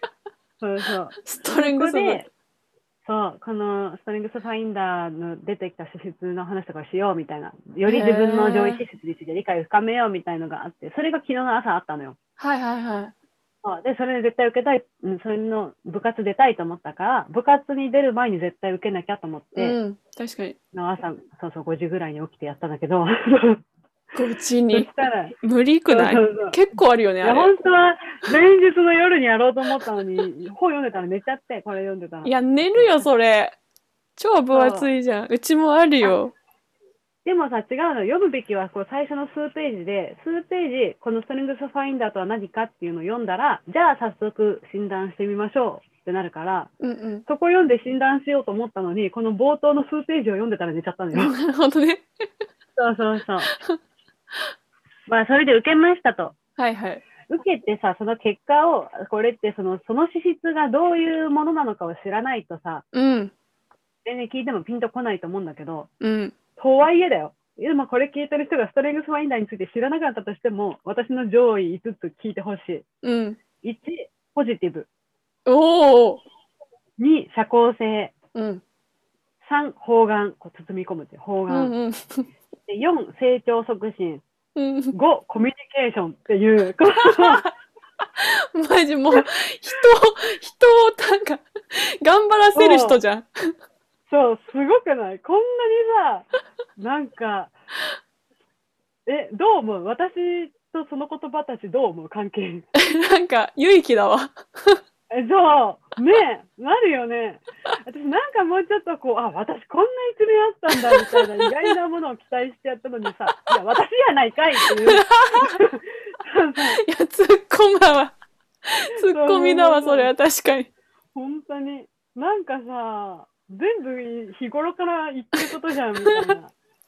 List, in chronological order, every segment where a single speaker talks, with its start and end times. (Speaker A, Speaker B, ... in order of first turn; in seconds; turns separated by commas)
Speaker A: 0.6-2.3, Speaker B: 1.2-2.2, Speaker A: 3.0-12.2, Speaker B: 7.8-8.8, Speaker B: 12.4-13.1, Speaker A: 13.6-19.8, Speaker B: 19.6-20.6, Speaker A: 20.7-23.6, Speaker B: 24.1-24.9, Speaker A: 24.7-25.4, Speaker B: 25.4-27.5, Speaker A: 25.9-26.6, Speaker A: 27.2-33.0, Speaker B: 32.2-33.5, Speaker B: 34.2-36.3, Speaker A: 34.5-34.9, Speaker A: 37.2-46.7, Speaker B: 46.8-47.2, Speaker A: 47.3-51.3, Speaker B: 51.1-52.4, Speaker A: 52.8-53.5, Speaker A: 55.1-56.4, Speaker B: 56.6-57.0, Speaker A: 57.3-62.8, Speaker B: 62.9-63.3, Speaker A: 64.0-65.9, Speaker B: 66.0-66.3, Speaker A: 66.6-72.8, Speaker B: 73.0-73.4, Speaker A: 73.6-74.9, Speaker B: 75.5-76.2, Speaker A: 77.0-78.1, Speaker B: 78.3-78.6, Speaker A: 79.4-81.7, Speaker B: 81.5-82.3, Speaker A: 82.7-84.2, Speaker B: 84.5-84.9, Speaker A: 84.9-87.4, Speaker B: 87.0-87.5, Speaker B: 88.0-93.5, Speaker A: 92.5-93.0, Speaker A: 94.1-97.5, Speaker A: 99.0-102.7, Speaker B: 102.8-104.8, Speaker A: 105.1-116.8, Speaker B: 110.9-111.7, Speaker B: 114.6-115.6, Speaker B: 116.6-118.1, Speaker B: 118.7-120.7, Speaker A: 119.0-120.1, Speaker A: 121.1-126.5, Speaker B: 126.1-126.3